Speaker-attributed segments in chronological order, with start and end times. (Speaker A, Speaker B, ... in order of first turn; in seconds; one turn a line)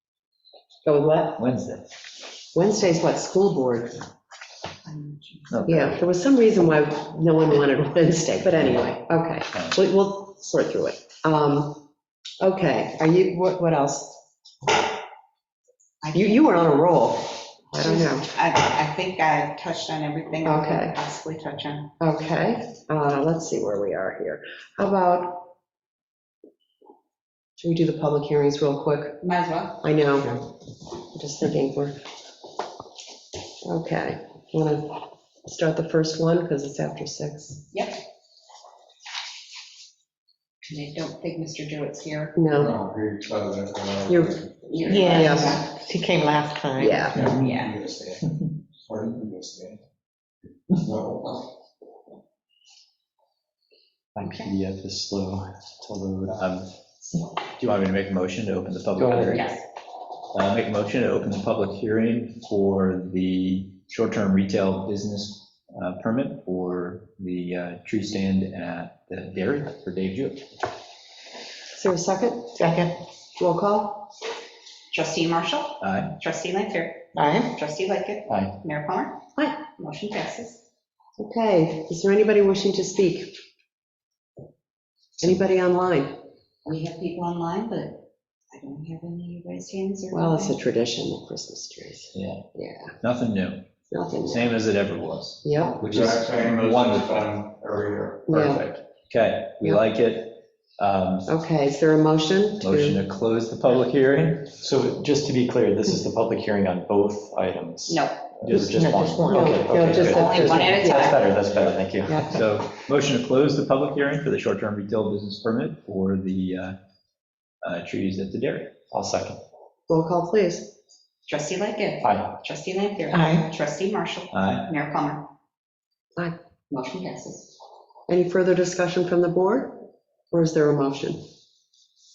Speaker A: 0.8-1.4
Speaker B: 1.4-1.9
Speaker A: 2.5-4.0
Speaker C: 4.8-5.7
Speaker B: 5.5-6.0
Speaker A: 5.7-11.8
Speaker A: 12.4-14.2
Speaker C: 16.0-16.4
Speaker A: 16.1-18.3
Speaker C: 17.8-21.9
Speaker A: 20.4-20.9
Speaker A: 22.0-25.5
Speaker A: 27.6-29.2
Speaker C: 29.2-29.8
Speaker A: 29.8-30.4
Speaker A: 31.1-32.0
Speaker A: 33.6-37.6
Speaker C: 37.7-38.0
Speaker C: 40.7-42.4
Speaker A: 42.4-42.8
Speaker D: 42.9-44.2
Speaker A: 44.1-45.6
Speaker C: 44.7-45.7
Speaker E: 44.9-47.2
Speaker A: 46.8-47.3
Speaker C: 47.2-47.8
Speaker F: 54.2-56.5
Speaker C: 54.2-54.5
Speaker B: 56.4-56.6
Speaker B: 57.6-59.5
Speaker F: 59.0-59.4
Speaker C: 59.3-59.6
Speaker B: 60.3-70.4
Speaker A: 71.8-72.6
Speaker E: 72.5-73.0
Speaker A: 73.4-74.1
Speaker C: 74.9-80.6
Speaker B: 75.8-76.2
Speaker E: 77.2-77.5
Speaker A: 81.2-83.4
Speaker A: 85.2-86.2
Speaker C: 86.7-90.6
Speaker A: 90.1-92.9
Speaker B: 92.2-92.5
Speaker B: 93.0-93.7
Speaker A: 93.9-94.5
Speaker B: 94.2-97.3
Speaker A: 95.4-95.8
Speaker D: 95.8-98.3
Speaker A: 98.3-98.6
Speaker F: 98.3-98.7
Speaker B: 99.1-101.3
Speaker A: 101.3-103.0
Speaker B: 102.6-104.6
Speaker F: 104.6-112.4
Speaker C: 107.9-108.3
Speaker B: 108.5-108.8
Speaker E: 108.5-109.6
Speaker A: 109.3-111.1
Speaker C: 110.0-111.2
Speaker B: 111.5-116.8
Speaker B: 117.6-118.8
Speaker F: 118.9-119.4
Speaker A: 119.9-120.7
Speaker C: 121.3-125.3
Speaker F: 122.0-122.4
Speaker E: 123.1-123.5
Speaker B: 124.3-124.7
Speaker C: 126.7-127.5
Speaker A: 128.1-131.2